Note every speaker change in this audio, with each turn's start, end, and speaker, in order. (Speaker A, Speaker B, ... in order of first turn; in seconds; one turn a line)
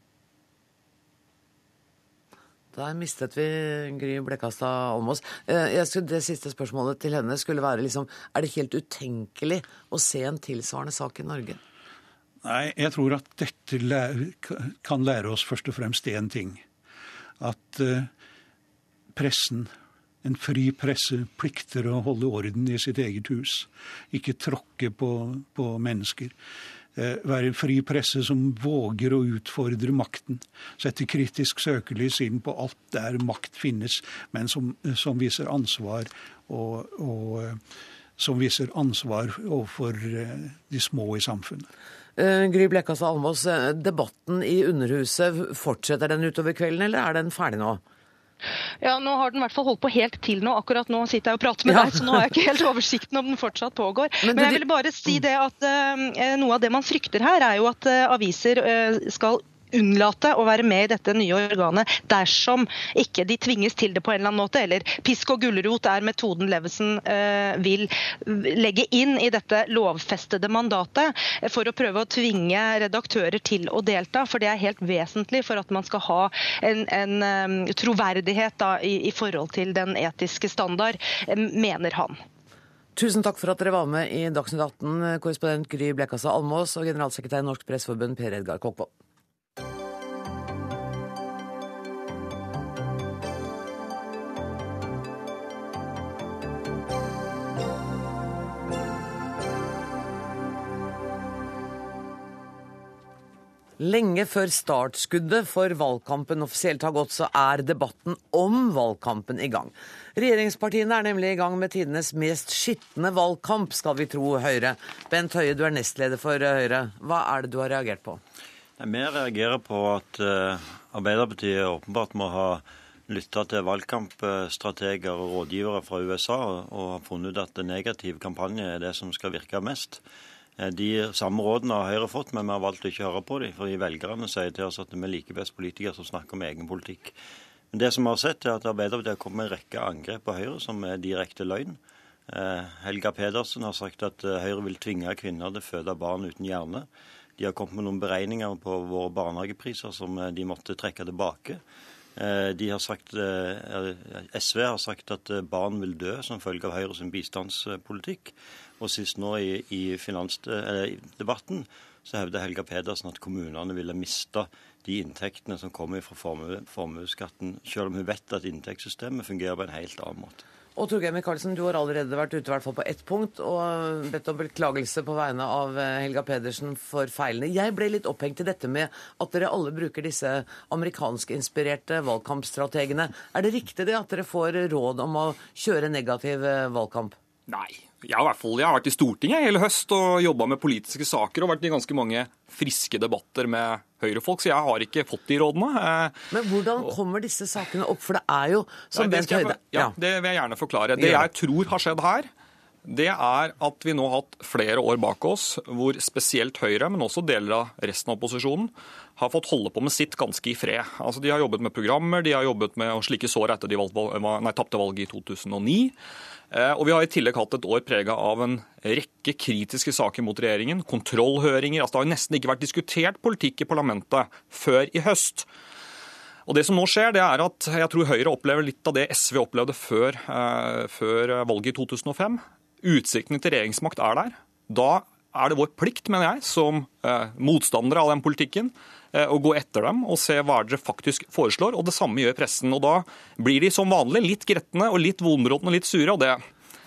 Speaker A: 2.7-11.6
Speaker B: 12.4-16.6
Speaker B: 17.4-18.1
Speaker B: 19.1-19.7
Speaker B: 20.2-26.3
Speaker B: 27.0-37.6
Speaker B: 38.2-41.7
Speaker A: 42.2-47.8
Speaker C: 48.8-82.2
Speaker A: 51.7-52.2
Speaker A: 54.2-55.2
Speaker A: 83.0-88.9
Speaker A: 103.8-118.2
Speaker D: 118.8-130.0
Speaker D: 130.6-137.2
Speaker D: 137.7-146.9
Speaker D: 147.4-151.6
Speaker D: 152.2-170.4
Speaker A: 170.8-187.2
Speaker E: 187.5-196.3
Speaker A: 196.3-199.9
Speaker E: 198.9-202.3
Speaker A: 200.9-201.3
Speaker E: 202.9-215.9
Speaker E: 216.5-225.5
Speaker E: 226.5-246.4